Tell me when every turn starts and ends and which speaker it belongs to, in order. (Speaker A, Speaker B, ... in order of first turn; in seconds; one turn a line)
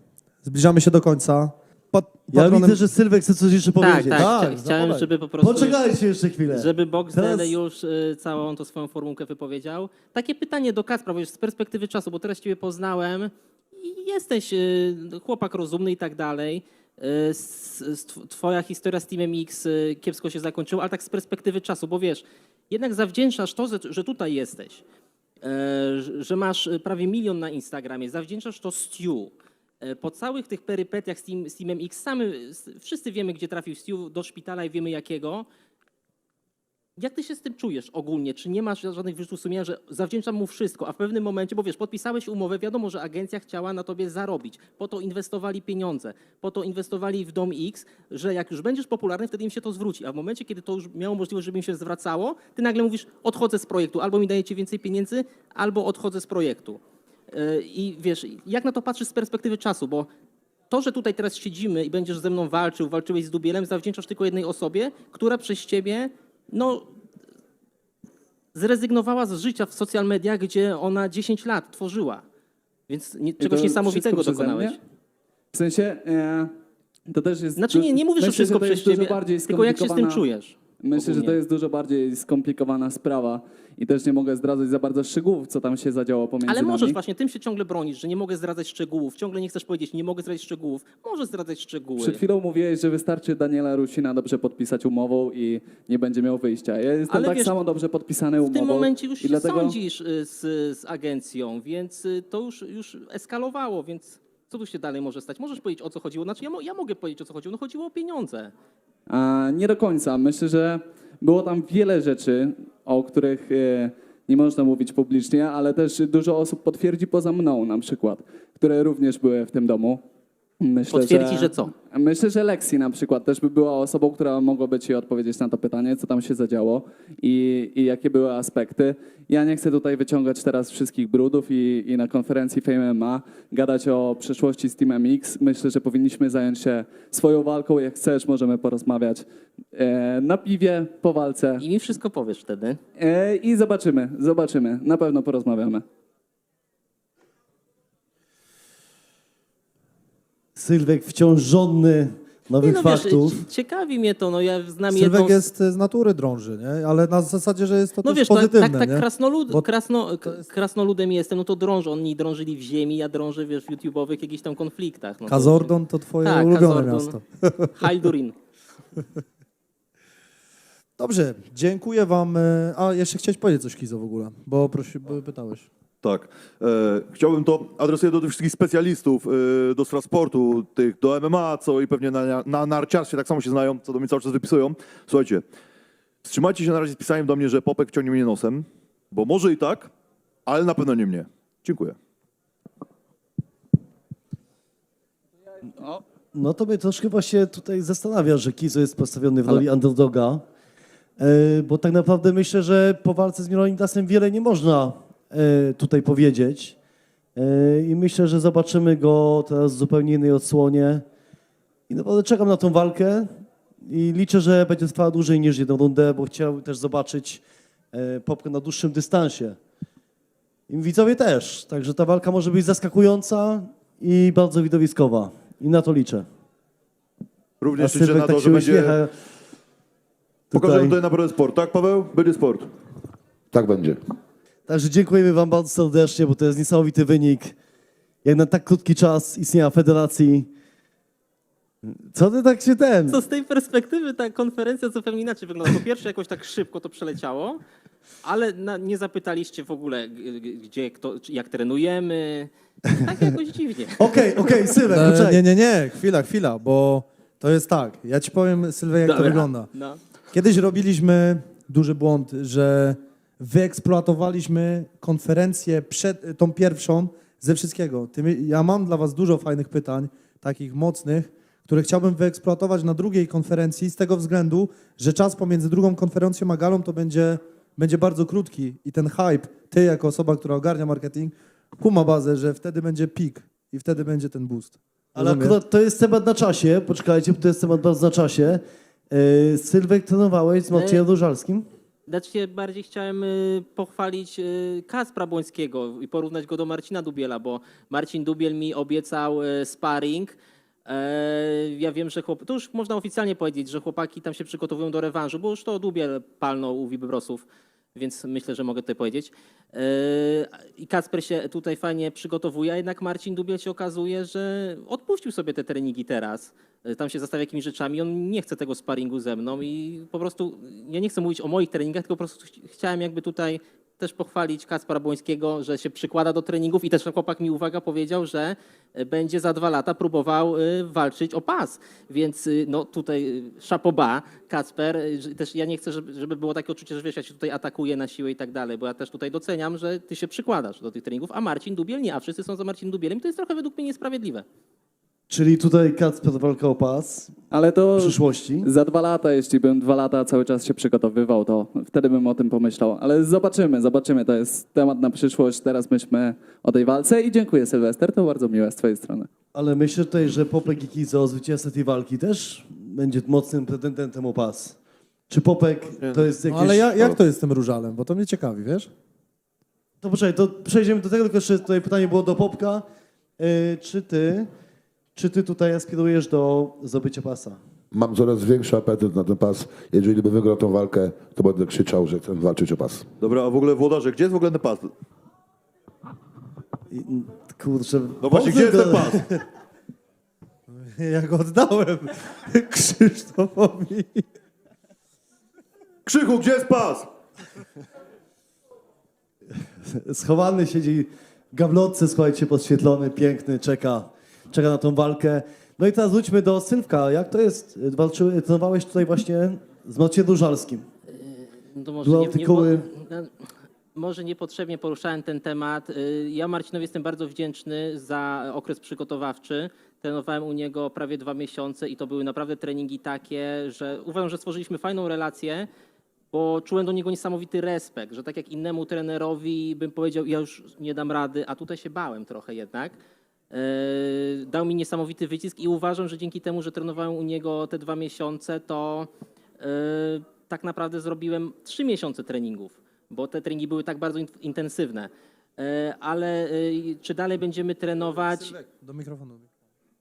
Speaker A: 0.4-2.8
Speaker B: 2.3-7.5
Speaker C: 3.8-5.8
Speaker A: 4.1-4.5
Speaker C: 6.5-24.8
Speaker C: 25.4-35.5
Speaker C: 37.0-56.8
Speaker C: 57.3-60.1
Speaker C: 60.7-66.9
Speaker C: 68.5-72.2
Speaker C: 72.9-74.8
Speaker D: 73.4-74.8
Speaker D: 75.5-76.5
Speaker D: 77.1-80.2
Speaker C: 77.6-81.4
Speaker D: 80.8-87.0
Speaker C: 86.5-92.2
Speaker D: 92.0-99.8
Speaker C: 97.1-97.5
Speaker C: 98.5-108.5
Speaker D: 109.1-120.0
Speaker D: 120.6-141.7
Speaker C: 120.9-121.7
Speaker C: 141.6-142.8
Speaker D: 143.0-145.8
Speaker B: 150.6-153.4
Speaker C: 152.6-155.4
Speaker A: 154.9-159.6
Speaker C: 158.0-165.7
Speaker A: 165.3-168.0
Speaker C: 166.2-167.2
Speaker C: 167.8-168.3
Speaker A: 171.0-175.7
Speaker E: 176.0-185.4
Speaker E: 186.2-189.9
Speaker E: 190.4-192.0
Speaker B: 195.8-200.4
Speaker B: 201.2-206.8
Speaker B: 207.3-211.0
Speaker B: 211.9-219.6
Speaker B: 220.7-226.2
Speaker E: 227.6-229.0
Speaker B: 227.8-229.1
Speaker B: 230.5-231.0
Speaker E: 230.5-232.7
Speaker F: 233.5-234.0
Speaker B: 234.7-237.5
Speaker B: 238.2-240.5
Speaker B: 241.8-243.2
Speaker C: 243.1-247.6
Speaker C: 248.2-254.8
Speaker B: 254.0-255.4
Speaker A: 254.9-259.7
Speaker C: 259.0-260.0
Speaker A: 260.3-285.6
Speaker B: 285.1-291.6
Speaker C: 290.7-291.0
Speaker C: 292.1-300.3
Speaker C: 300.9-344.4
Speaker B: 345.3-347.4
Speaker D: 347.5-359.3
Speaker B: 348.0-348.7
Speaker B: 359.5-364.8
Speaker B: 365.3-367.1
Speaker E: 366.0-366.3
Speaker A: 366.5-368.9
Speaker B: 370.0-372.8
Speaker B: 373.4-374.5
Speaker B: 375.1-377.6
Speaker F: 377.9-383.1
Speaker E: 383.2-384.9
Speaker B: 386.9-389.4
Speaker E: 388.2-389.2
Speaker A: 390.7-394.3
Speaker E: 396.1-397.1
Speaker B: 399.6-410.8
Speaker C: 411.2-425.7
Speaker B: 412.0-412.9
Speaker C: 426.3-433.0
Speaker C: 433.5-448.5
Speaker A: 448.4-449.5